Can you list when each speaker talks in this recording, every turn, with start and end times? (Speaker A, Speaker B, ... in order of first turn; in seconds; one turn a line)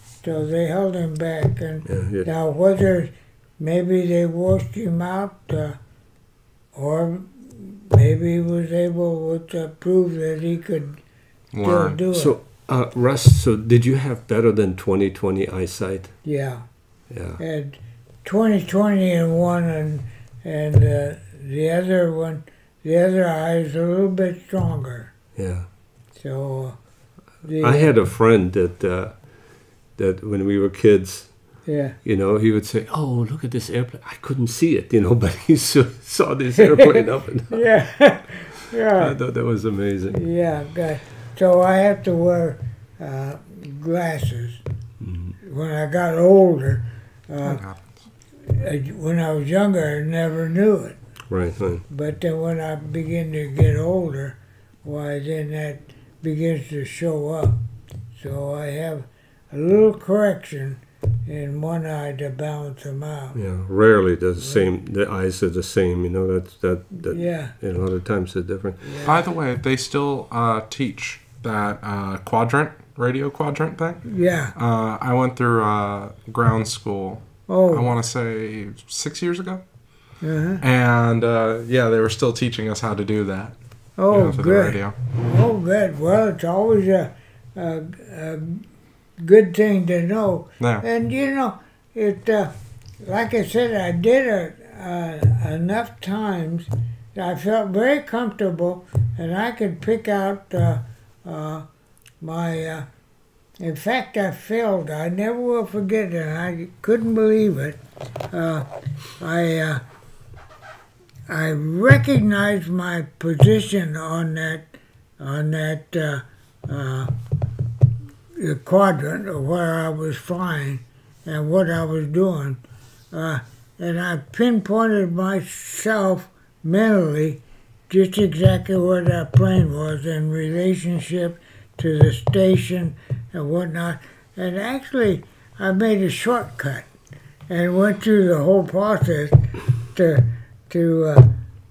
Speaker A: 0.2-5.8
Speaker B: 1.9-2.3
Speaker A: 6.7-11.0
Speaker C: 11.5-12.0
Speaker A: 11.6-12.4
Speaker B: 12.1-16.2
Speaker A: 16.2-16.6
Speaker B: 17.1-17.4
Speaker A: 17.4-25.1
Speaker B: 25.4-25.7
Speaker A: 26.2-26.8
Speaker A: 27.4-27.9
Speaker B: 27.6-29.2
Speaker B: 30.0-31.3
Speaker A: 31.7-32.0
Speaker B: 32.0-37.6
Speaker A: 36.6-39.2
Speaker B: 39.0-40.2
Speaker A: 40.1-44.6
Speaker B: 45.0-45.3
Speaker A: 45.5-47.6
Speaker C: 47.4-47.8
Speaker A: 48.5-51.0
Speaker B: 51.3-51.8
Speaker A: 51.9-57.6
Speaker A: 58.1-63.4
Speaker B: 63.3-68.8
Speaker A: 64.4-64.7
Speaker A: 67.1-67.5
Speaker A: 68.8-69.2
Speaker C: 69.0-79.6
Speaker A: 74.1-74.5
Speaker A: 77.5-77.9
Speaker A: 80.2-80.6
Speaker C: 80.6-83.6
Speaker A: 84.0-88.7
Speaker C: 84.1-85.0
Speaker A: 89.2-101.7
Speaker A: 102.2-102.9
Speaker A: 103.6-107.8
Speaker A: 108.3-108.7
Speaker A: 109.2-109.8
Speaker A: 111.3-117.1
Speaker A: 118.4-122.6
Speaker A: 123.1-136.9
Speaker A: 137.5-141.3